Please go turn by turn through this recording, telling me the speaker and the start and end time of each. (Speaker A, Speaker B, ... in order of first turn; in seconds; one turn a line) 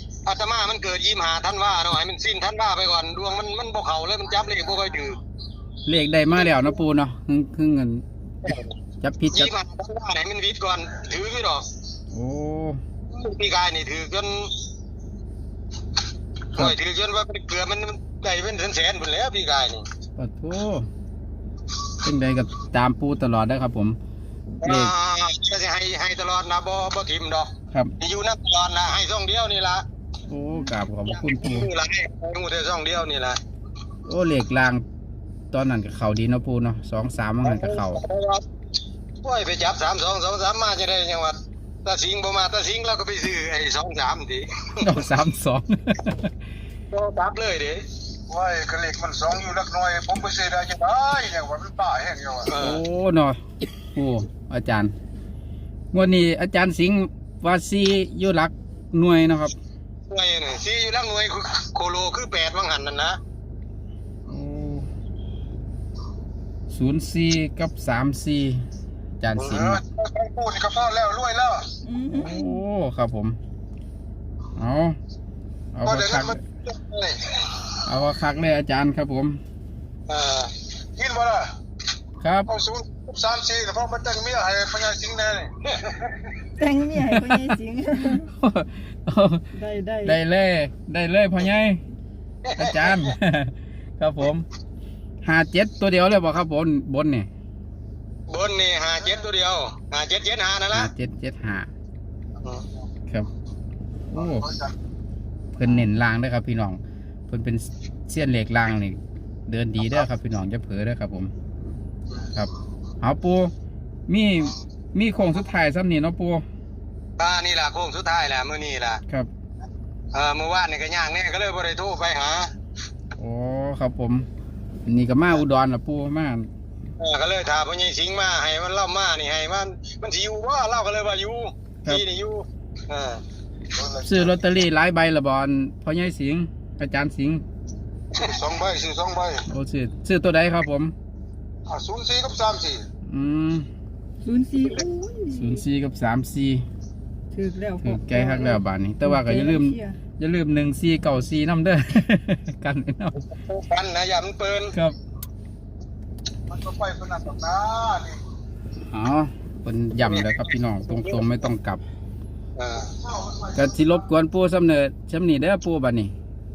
Speaker A: 0.2-5.2
Speaker B: 5.8-8.0
Speaker A: 8.4-8.7
Speaker B: 9.0-9.5
Speaker A: 9.3-11.6
Speaker B: 12.1-12.8
Speaker A: 13.1-14.5
Speaker A: 16.5-19.8
Speaker B: 20.2-20.9
Speaker B: 22.0-24.0
Speaker A: 24.6-29.8
Speaker B: 24.6-24.9
Speaker B: 30.3-31.7
Speaker A: 31.1-33.4
Speaker B: 34.0-34.8
Speaker B: 35.5-38.0
Speaker A: 37.4-38.4
Speaker A: 39.2-44.8
Speaker B: 44.8-46.3
Speaker A: 46.9-47.8
Speaker C: 48.3-52.5
Speaker A: 52.5-52.8
Speaker B: 52.5-53.4
Speaker B: 53.9-54.9
Speaker B: 55.9-59.5
Speaker A: 60.1-63.2
Speaker B: 64.3-64.9
Speaker B: 66.7-68.6
Speaker B: 69.2-69.8
Speaker A: 69.3-69.7
Speaker C: 69.6-71.7
Speaker D: 71.8-72.6
Speaker B: 72.1-73.4
Speaker B: 74.5-75.0
Speaker B: 75.7-76.4
Speaker C: 75.9-77.3
Speaker B: 77.8-79.4
Speaker A: 80.1-80.5
Speaker C: 81.0-81.5
Speaker B: 82.2-82.5
Speaker C: 82.5-85.6
Speaker D: 86.6-88.3
Speaker B: 87.2-87.5
Speaker B: 88.0-89.5
Speaker D: 89.5-90.2
Speaker B: 90.0-91.8
Speaker A: 92.5-92.9
Speaker B: 92.5-94.4
Speaker B: 95.2-97.3
Speaker A: 98.3-100.9
Speaker B: 100.7-101.7
Speaker B: 104.1-104.5
Speaker B: 105.5-111.3
Speaker B: 112.3-113.5
Speaker B: 114.1-116.4
Speaker A: 117.2-119.0
Speaker A: 120.1-122.5
Speaker B: 123.2-124.3
Speaker B: 124.8-126.5
Speaker A: 127.0-133.2
Speaker C: 133.7-134.2
Speaker B: 134.0-137.4
Speaker C: 138.2-139.4
Speaker B: 139.5-140.9
Speaker C: 141.7-142.8
Speaker B: 143.1-143.7
Speaker D: 144.2-145.6
Speaker B: 145.3-146.6
Speaker D: 147.3-150.0
Speaker B: 147.8-153.2
Speaker A: 153.3-154.7
Speaker C: 156.5-158.2
Speaker B: 158.9-161.8
Speaker A: 160.0-161.2
Speaker A: 162.6-162.9
Speaker B: 163.5-166.1